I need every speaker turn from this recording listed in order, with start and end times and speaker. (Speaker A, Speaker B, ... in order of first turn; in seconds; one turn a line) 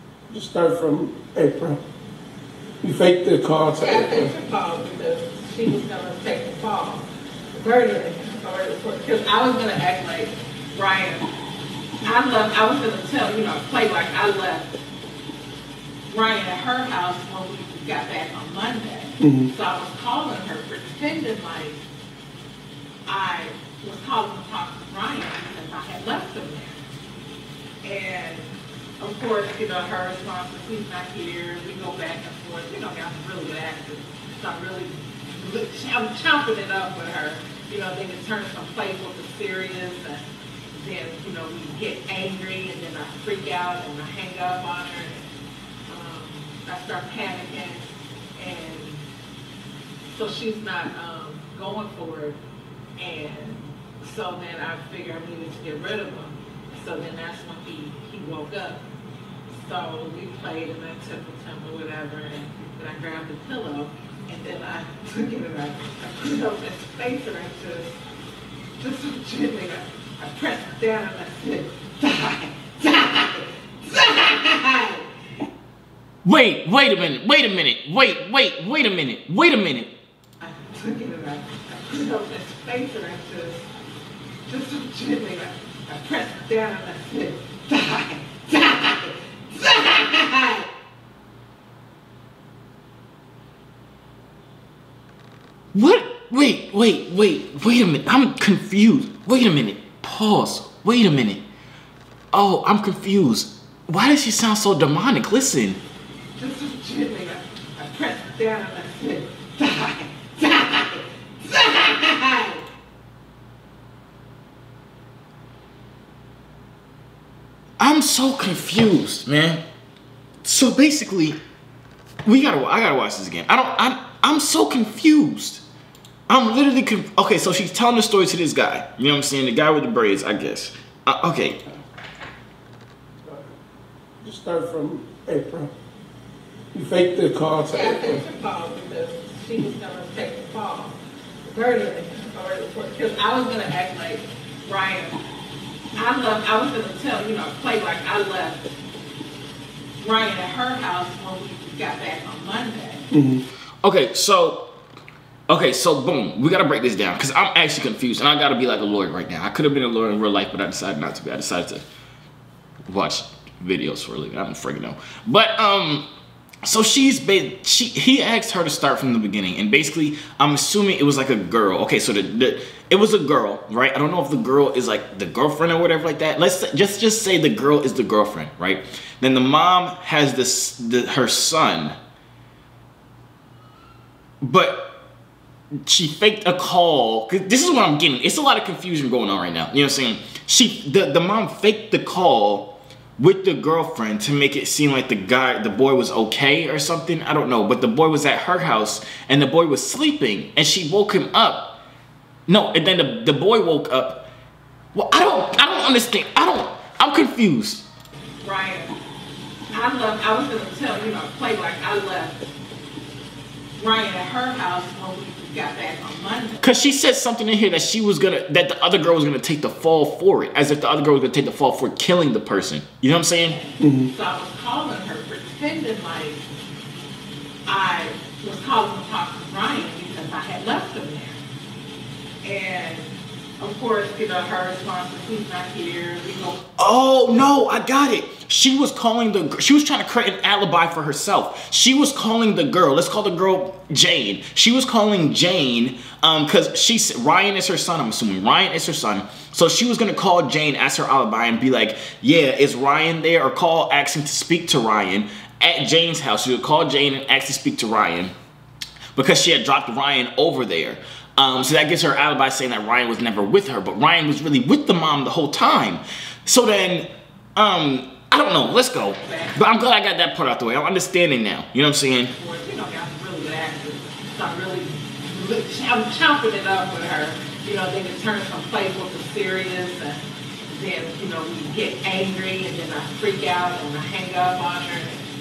Speaker A: 0.3-1.8
Speaker A: 2.8-4.3
Speaker B: 3.8-11.3
Speaker B: 12.0-14.8
Speaker B: 16.1-21.8
Speaker A: 19.2-19.5
Speaker B: 23.1-26.8
Speaker B: 27.8-45.3
Speaker B: 45.9-49.0
Speaker B: 50.1-52.4
Speaker B: 53.0-58.8
Speaker B: 59.5-68.0
Speaker B: 68.8-75.0
Speaker C: 76.2-79.9
Speaker B: 80.4-83.7
Speaker B: 84.5-90.7
Speaker C: 95.7-101.4
Speaker C: 102.3-105.8
Speaker B: 106.3-112.6
Speaker C: 117.8-119.6
Speaker C: 120.4-121.4
Speaker C: 122.2-125.6
Speaker C: 126.3-131.6
Speaker A: 134.2-135.7
Speaker A: 136.7-138.2
Speaker B: 137.7-145.2
Speaker B: 145.9-148.7
Speaker B: 150.0-153.1
Speaker A: 153.1-153.4
Speaker C: 153.8-154.7
Speaker C: 155.5-161.8
Speaker C: 162.9-166.1
Speaker C: 166.6-181.9
Speaker C: 184.4-184.9
Speaker C: 185.8-201.8
Speaker C: 202.5-204.2
Speaker C: 204.9-207.8
Speaker B: 208.4-208.9
Speaker B: 209.7-212.5
Speaker B: 213.8-216.6
Speaker C: 216.6-223.6
Speaker B: 223.5-226.4
Speaker A: 223.8-224.1
Speaker B: 227.7-231.4
Speaker B: 232.4-236.6
Speaker C: 236.8-258.3
Speaker C: 259.1-272.3
Speaker B: 269.1-269.6
Speaker B: 272.3-280.2
Speaker B: 280.7-285.2